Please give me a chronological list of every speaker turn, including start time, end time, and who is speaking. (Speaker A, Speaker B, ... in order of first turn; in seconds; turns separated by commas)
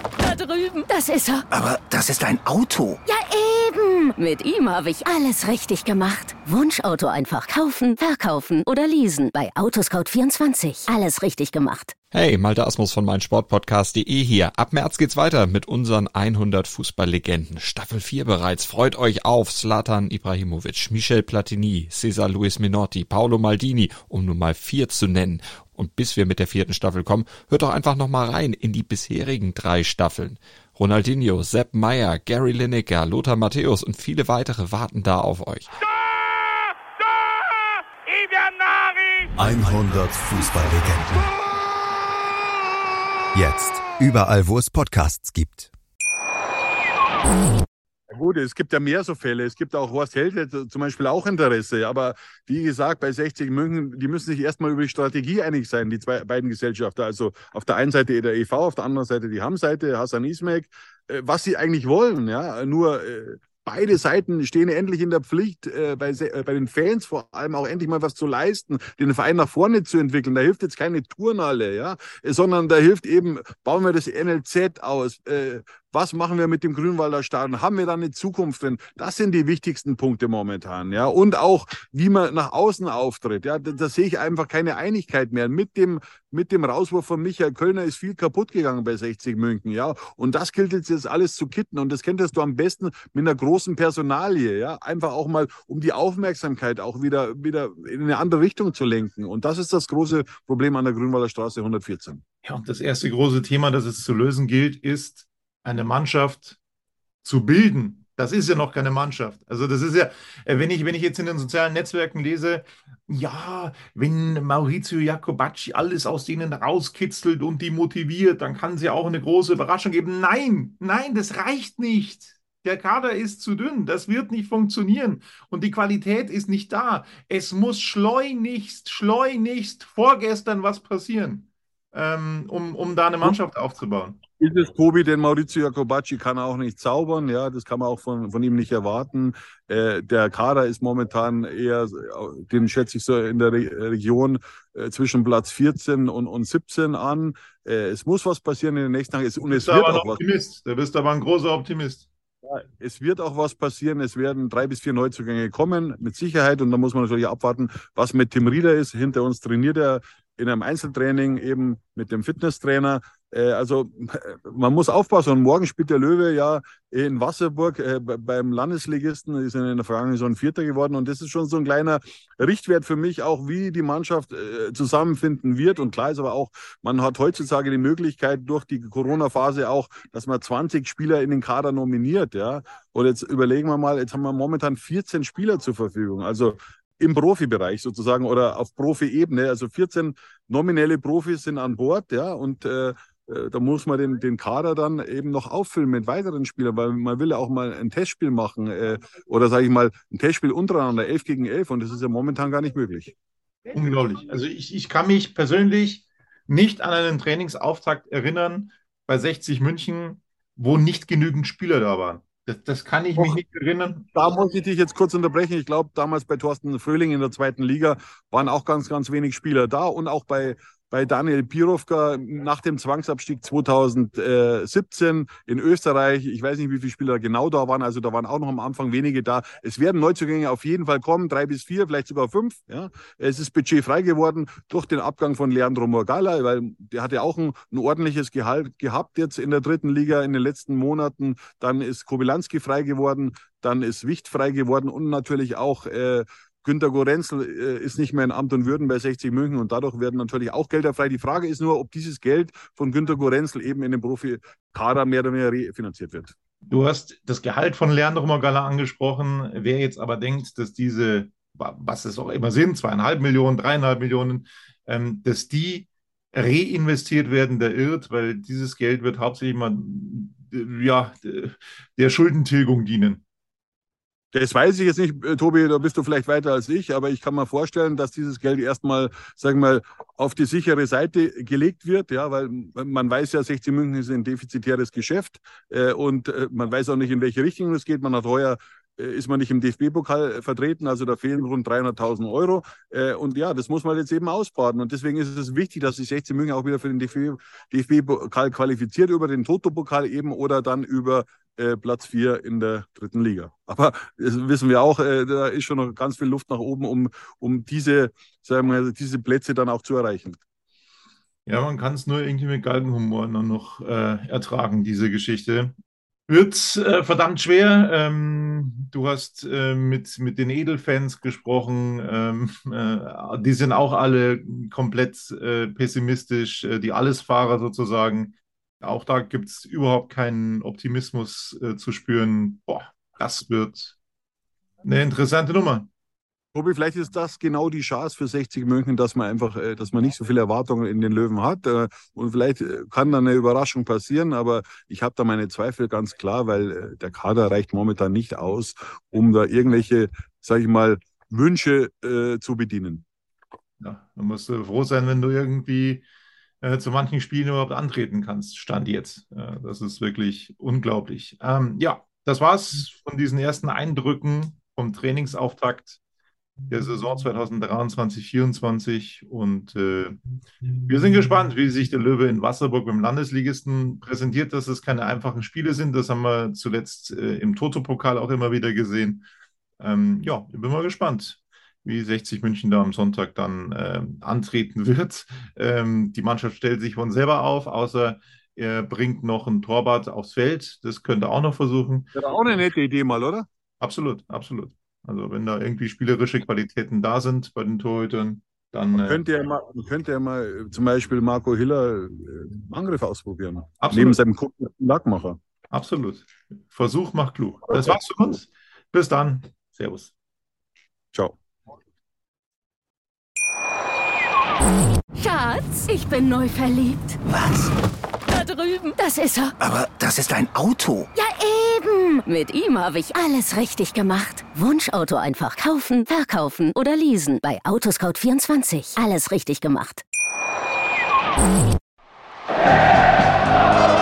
Speaker A: 0.2-1.4, Speaker B: 1.5-3.0, Speaker A: 3.0-11.9, Speaker C: 12.1-35.7, Speaker D: 39.4-41.3, Speaker D: 43.3-45.7, Speaker E: 48.1-102.2, Speaker F: 102.4-106.6, Speaker F: 107.2-134.2, Speaker E: 134.4-150.2, Speaker F: 149.5-152.1, Speaker E: 152.4-203.1, Speaker F: 203.7-214.1, Speaker E: 214.1-256.3, Speaker F: 256.7-273.2, Speaker E: 274.3-310.4, Speaker F: 311.4-315.7, Speaker F: 316.3-334.0, Speaker F: 334.8-335.9, Speaker E: 336.5-353.0, Speaker F: 353.8-356.0, Speaker F: 356.6-366.0, Speaker F: 366.7-370.2, Speaker F: 370.9-379.3, Speaker F: 379.8-392.1, Speaker E: 392.1-393.5, Speaker F: 393.8-399.2, Speaker E: 399.0-405.4, Speaker F: 403.8-404.2, Speaker F: 405.7-410.1, Speaker A: 415.1-417.2, Speaker B: 417.3-417.7, Speaker A: 418.3-419.5, Speaker B: 419.6-421.1, Speaker A: 421.1-430.0